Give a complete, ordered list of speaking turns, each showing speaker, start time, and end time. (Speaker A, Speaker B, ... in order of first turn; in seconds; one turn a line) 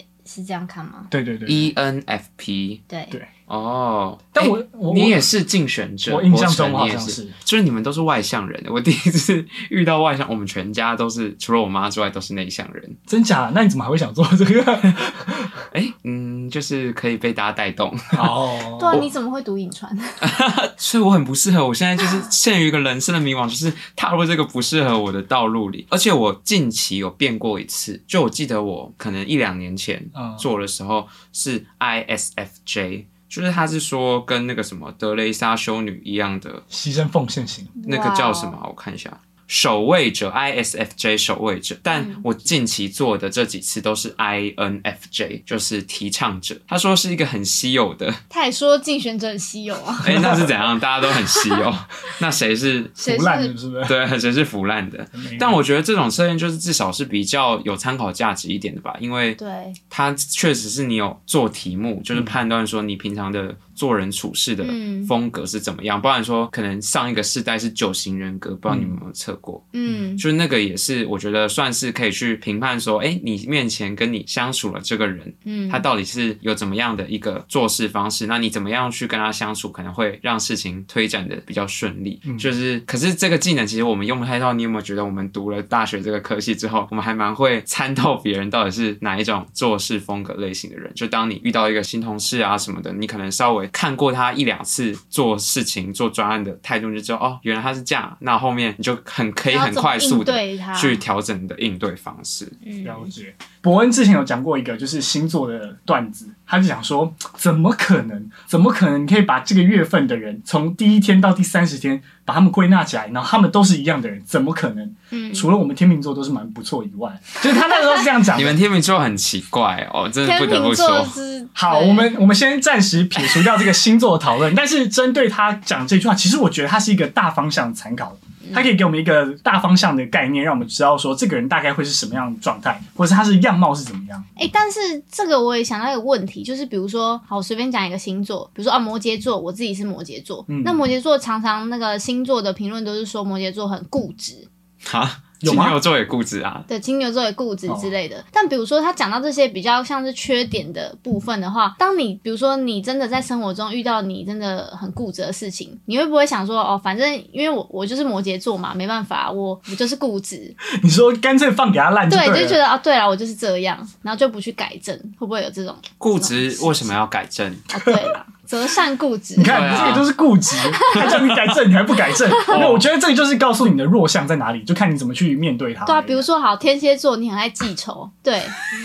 Speaker A: 0.2-1.1
Speaker B: 1.1-1.7
Speaker C: 1.5-2.8
Speaker A: 2.9-3.1
Speaker C: 3.5-13.0
Speaker B: 4.3-5.3
Speaker B: 6.1-7.3
Speaker B: 13.1-15.5
Speaker C: 15.7-18.3
Speaker B: 18.1-19.1
Speaker A: 18.8-20.2
Speaker C: 20.2-36.6
Speaker B: 30.1-30.4
Speaker B: 36.7-37.7
Speaker A: 37.8-38.5
Speaker C: 37.9-48.2
Speaker A: 41.9-42.2
Speaker A: 48.3-50.3
Speaker C: 50.0-53.0
Speaker B: 50.0-50.6
Speaker A: 53.0-53.5
Speaker B: 53.0-54.0
Speaker C: 53.9-69.7
Speaker B: 55.1-55.6
Speaker A: 59.4-59.8
Speaker A: 64.6-65.1
Speaker B: 68.7-69.0
Speaker A: 69.7-70.2
Speaker C: 70.2-102.6
Speaker A: 75.5-75.8
Speaker B: 82.2-82.5
Speaker A: 99.5-101.0
Speaker A: 102.6-103.1
Speaker B: 102.8-118.6
Speaker A: 115.1-115.5
Speaker A: 117.6-118.0
Speaker C: 118.3-121.2
Speaker A: 120.2-122.2
Speaker B: 121.5-134.2
Speaker A: 134.4-144.5
Speaker B: 140.5-140.8
Speaker C: 144.8-146.7
Speaker B: 145.4-145.8
Speaker A: 146.7-160.6
Speaker B: 160.7-162.6
Speaker A: 162.1-166.9
Speaker C: 166.0-167.7
Speaker A: 167.7-169.9
Speaker B: 167.9-168.1
Speaker B: 169.4-176.3
Speaker C: 169.4-170.1
Speaker A: 170.8-171.1
Speaker C: 170.9-171.4
Speaker C: 172.5-172.9
Speaker A: 175.8-178.7